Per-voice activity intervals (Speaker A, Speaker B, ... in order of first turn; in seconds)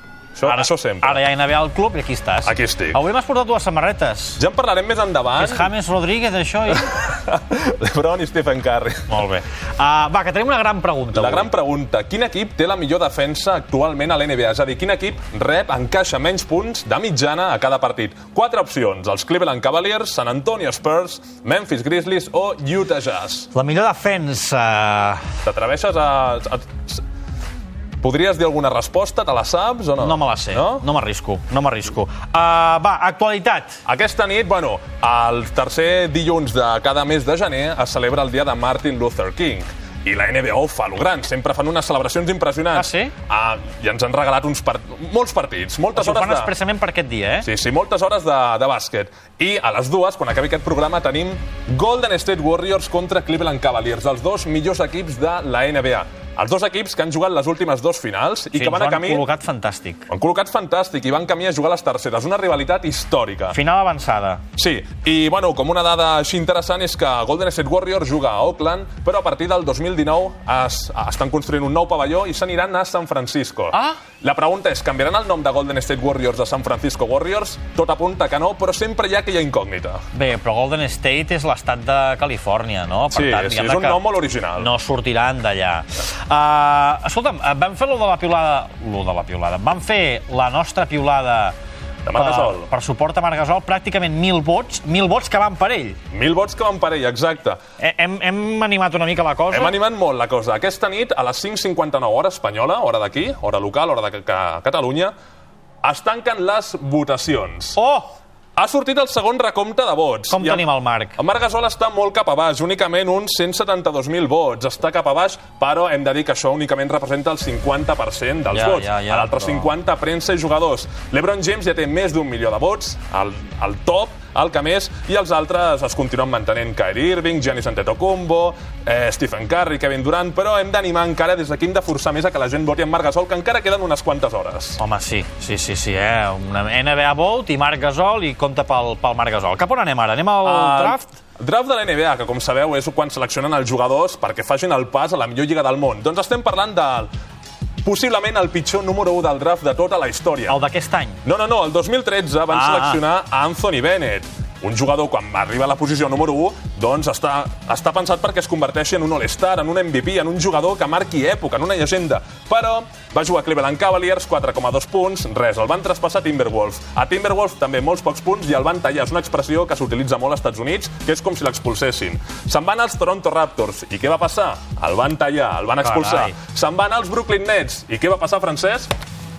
Speaker A: 0.4-1.2, 2.4-3.0, 4.4-5.7, 6.7-9.3, 11.1-23.5, 25.4-27.0, 28.0-30.9, 33.9-46.5, 47.4-59.2, 60.1-63.6, 64.6-80.0, 83.1-84.7, 92.0-92.7, 96.1-97.6, 99.5-105.1, 105.8-107.8, 108.6-134.8, 140.4-147.1, 147.8-150.6, 151.2-178.9
Speaker B: 0.5-4.4, 5.4-6.9, 9.1-11.5, 23.5-25.2, 30.0-33.8, 42.8-43.1, 46.0-47.5, 58.5-60.1, 63.5-64.4, 73.7-74.0, 80.1-84.0, 84.6-91.5, 92.2-96.0, 97.8-99.8, 107.8-108.2, 110.3-111.2, 118.5-119.7, 134.8-141.1, 150.5-151.2, 152.5-153.0, 175.8-176.3